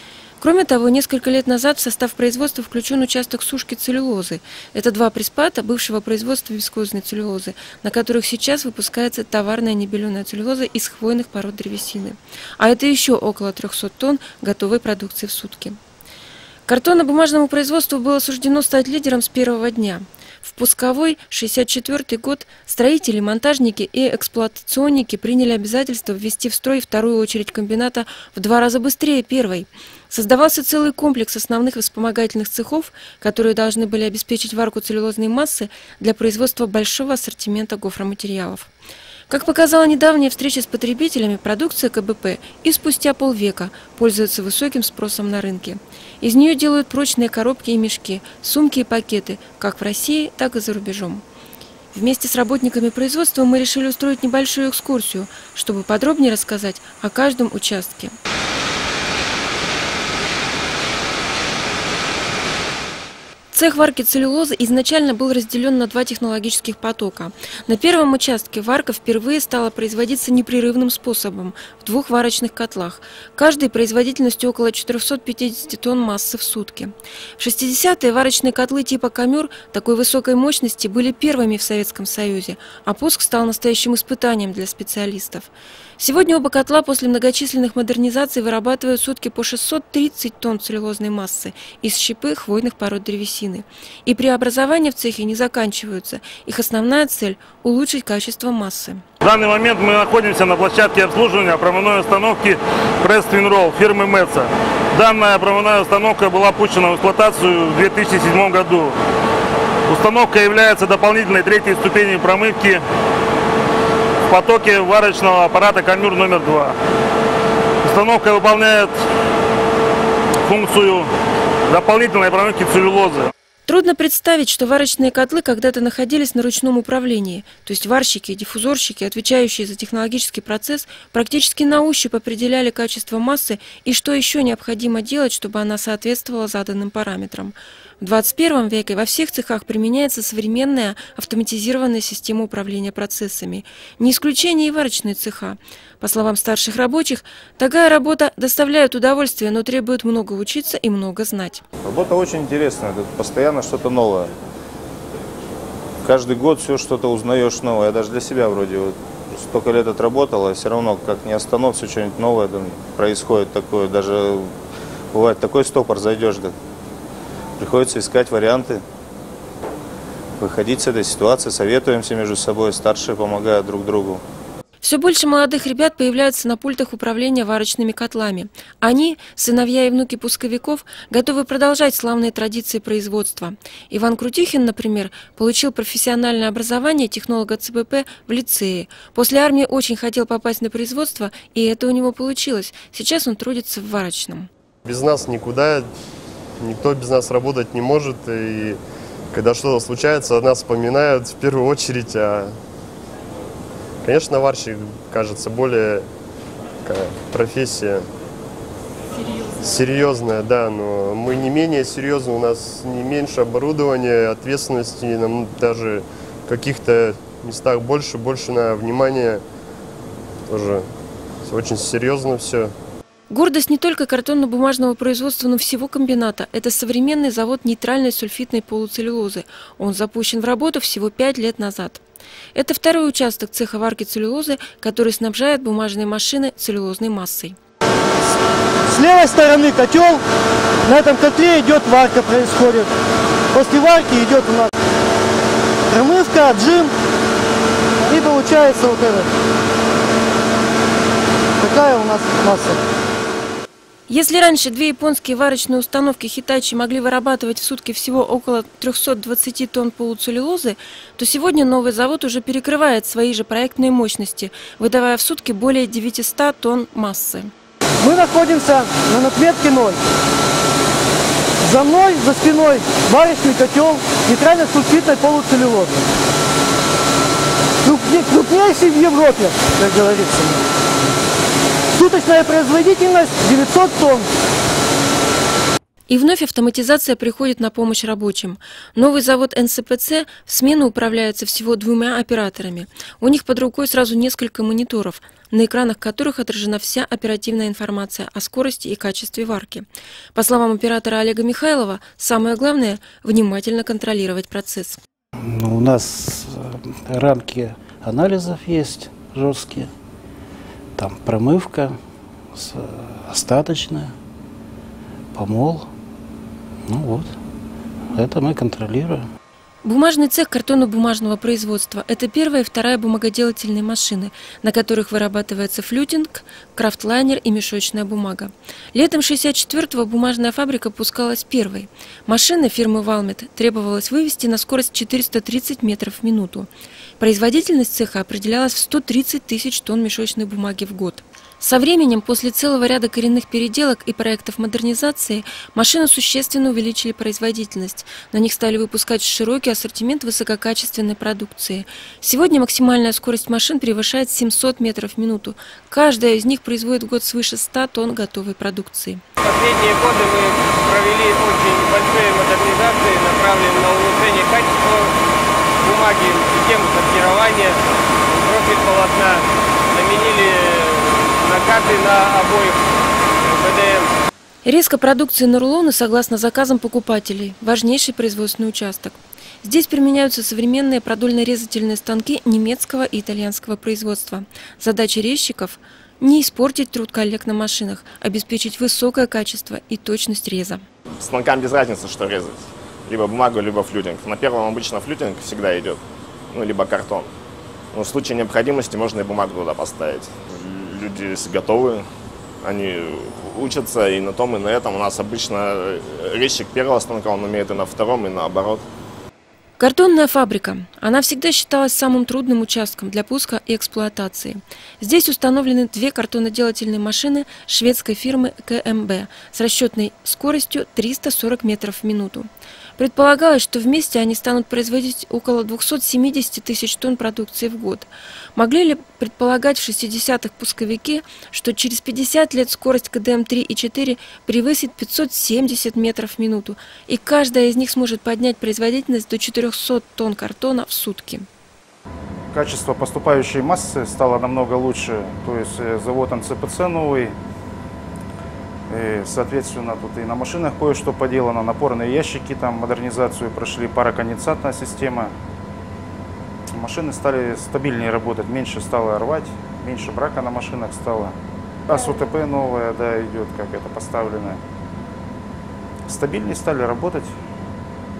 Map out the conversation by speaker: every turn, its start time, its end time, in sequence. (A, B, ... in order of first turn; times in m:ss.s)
0:00.4-0:15.8 A
0:16.7-0:38.7 A
0:39.3-0:51.2 A
0:51.9-0:58.2 A
1:03.5-1:39.0 A
1:39.2-1:48.9 B
1:49.9-1:52.8 B
1:54.3-1:56.7 B
1:57.8-1:58.9 B
2:00.5-2:01.1 B
2:01.7-2:03.3 B
2:03.6-2:31.6 A
2:31.8-2:34.3 C
2:36.0-2:44.5 C
2:45.1-2:46.5 C
2:47.6-2:48.8 C
2:50.4-2:54.2 C
2:54.8-3:14.5 A
3:14.8-3:15.9 D
3:16.6-3:18.8 D
3:19.3-3:22.5 D
3:24.0-3:26.0 D
3:26.8-3:28.0 D
3:29.6-3:39.4 D
3:40.5-3:40.8 D
3:41.4-3:42.7 D
3:43.3-3:52.0 A
3:52.5-3:57.6 A
3:58.9-4:00.2 E
4:00.8-4:02.9 E
4:03.5-4:04.7 E
4:05.9-4:06.9 E
4:08.1-4:09.3 E
4:11.6-4:12.8 E
4:14.1-4:27.5 A
4:28.0-4:30.0 E
4:31.6-4:36.0 E
4:37.8-4:40.6 E
4:41.9-4:44.3 E
4:46.1-5:05.0 A
5:05.4-5:09.9 F
5:11.0-5:12.0 F
5:12.5-5:14.1 F
5:15.3-5:15.9 F
5:16.9-5:17.4 F
5:18.1-5:19.3 F
5:19.8-5:59.2 A
5:59.4-6:05.1 G
6:05.8-6:07.8 G
6:08.3-6:12.8 G
6:13.4-6:14.1 G
6:14.6-6:30.8 A
6:31.2-6:36.0 H
6:36.5-6:37.3 H
6:37.9-6:42.0 H
6:42.6-6:48.8 H
6:49.8-7:21.5 A
7:22.5-7:27.4 I
7:28.9-7:35.3 I
7:36.7-7:41.4 I
7:41.9-7:44.6 I
7:46.1-7:47.3 I